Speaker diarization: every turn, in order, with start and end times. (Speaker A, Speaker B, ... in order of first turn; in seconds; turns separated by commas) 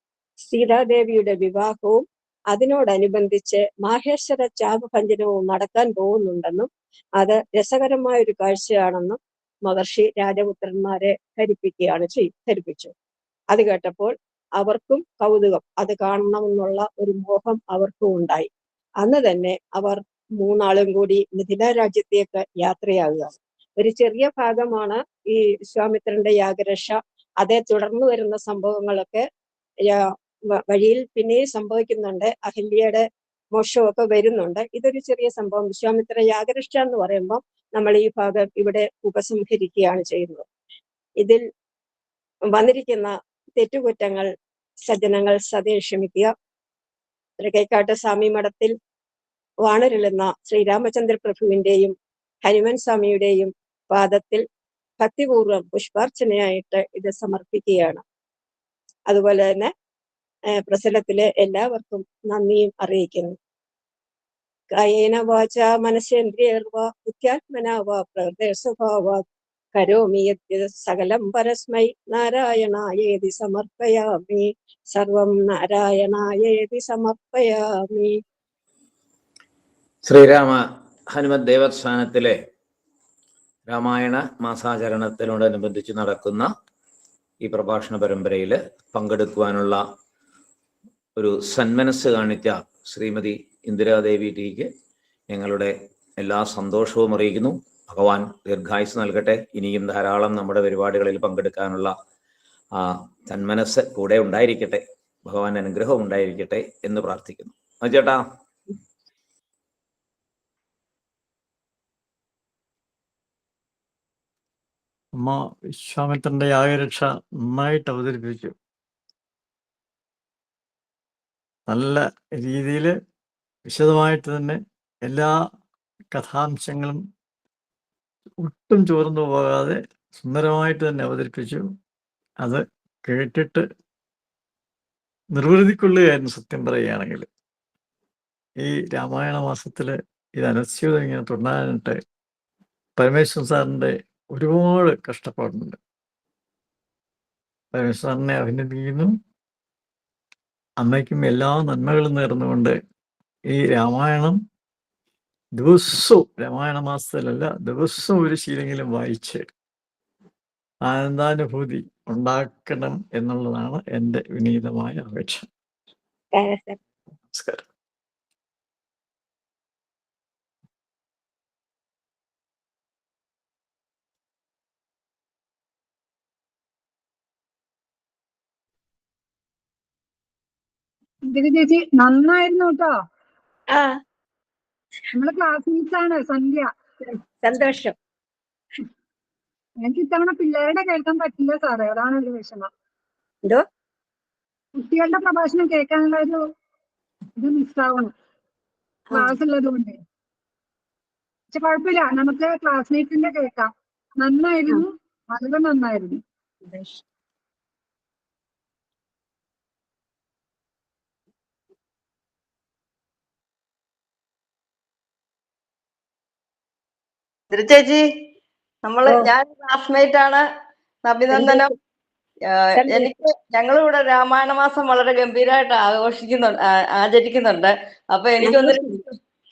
Speaker A: 0.4-12.9, Speaker A: 13.5-18.5, Speaker A: 19.0-29.2, Speaker A: 29.9-30.1, Speaker A: 30.7-33.0, Speaker A: 33.5-40.4, Speaker A: 42.5-44.3, Speaker A: 44.9-46.3, Speaker A: 47.4-48.7, Speaker A: 49.6-51.9, Speaker A: 52.4-54.4, Speaker A: 55.0-58.0, Speaker A: 59.1-59.7, Speaker A: 60.6-63.4, Speaker A: 64.8-69.2, Speaker A: 69.7-78.2, Speaker B: 80.0-80.6, Speaker B: 81.1-82.3, Speaker B: 83.7-86.5, Speaker B: 87.4-89.8, Speaker B: 91.2-94.7, Speaker B: 95.3-101.9, Speaker B: 102.8-108.2, Speaker C: 115.2-118.5, Speaker C: 121.7-122.9, Speaker C: 123.7-125.3, Speaker C: 126.1-127.0, Speaker C: 128.4-131.7, Speaker C: 132.4-133.6, Speaker C: 135.3-137.3, Speaker C: 138.6-142.0, Speaker C: 143.0-145.8, Speaker C: 147.8-149.1, Speaker C: 150.8-152.8, Speaker C: 153.5-154.4, Speaker C: 155.6-159.5, Speaker C: 160.8-165.5, Speaker A: 166.3-166.8, Speaker C: 167.3-167.6, Speaker D: 181.3-183.0, Speaker D: 185.1-186.7, Speaker A: 187.2-187.9, Speaker D: 189.8-192.7, Speaker D: 194.8-196.4, Speaker D: 197.4-198.1, Speaker A: 199.1-199.3, Speaker D: 199.1-200.0, Speaker D: 201.5-206.2, Speaker A: 206.7-207.0, Speaker E: 217.5-218.0, Speaker E: 218.8-220.4, Speaker A: 219.1-219.3, Speaker E: 221.1-221.7, Speaker A: 221.3-221.7, Speaker E: 222.5-228.8, Speaker A: 222.8-223.2, Speaker A: 228.4-229.0